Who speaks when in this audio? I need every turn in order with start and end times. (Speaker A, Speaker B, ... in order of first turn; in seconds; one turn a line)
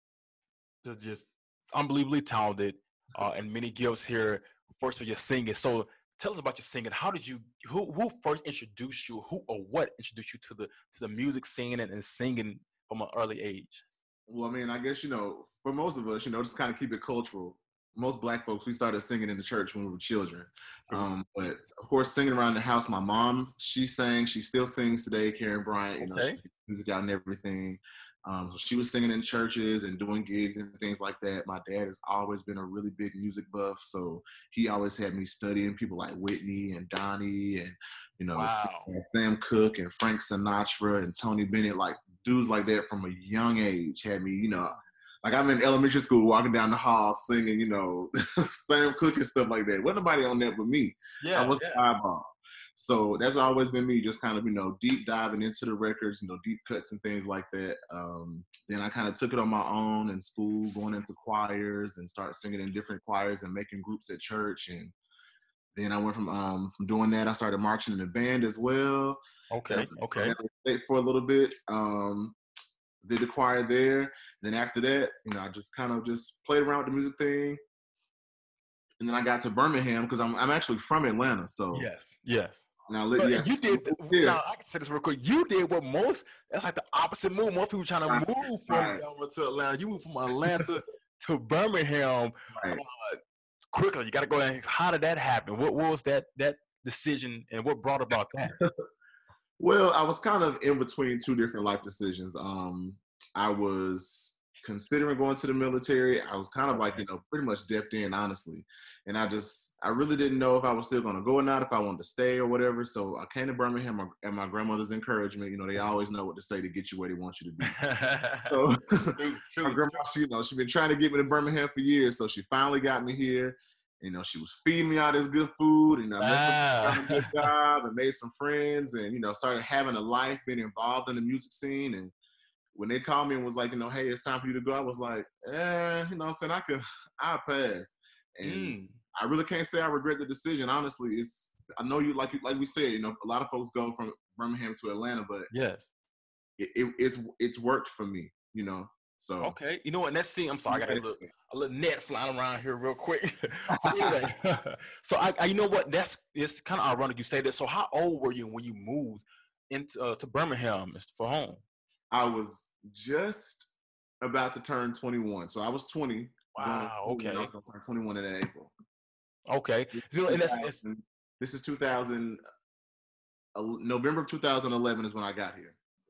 Speaker A: 0.8-13.8
Speaker B: 14.3-64.9
Speaker A: 26.0-26.4
Speaker A: 38.4-38.9
Speaker A: 51.2-51.8
Speaker B: 65.8-72.4
Speaker A: 69.5-70.4
Speaker B: 73.0-77.6
Speaker B: 79.0-81.9
Speaker A: 81.7-93.2
Speaker B: 82.9-84.4
Speaker B: 88.1-89.0
Speaker B: 90.4-90.8
Speaker B: 92.5-92.8
Speaker A: 93.7-98.6
Speaker B: 99.6-117.8
Speaker A: 106.7-107.0
Speaker A: 117.7-118.6
Speaker B: 118.5-132.1
Speaker A: 119.2-120.0
Speaker A: 126.2-127.3
Speaker B: 132.7-145.5
Speaker A: 138.4-139.0
Speaker A: 145.5-145.9
Speaker B: 146.6-149.6
Speaker A: 149.4-161.6
Speaker B: 150.7-151.0
Speaker B: 153.7-154.2
Speaker B: 162.1-163.7
Speaker B: 164.2-168.7
Speaker A: 166.6-167.5
Speaker A: 169.5-170.8
Speaker B: 170.3-172.4
Speaker B: 173.6-175.8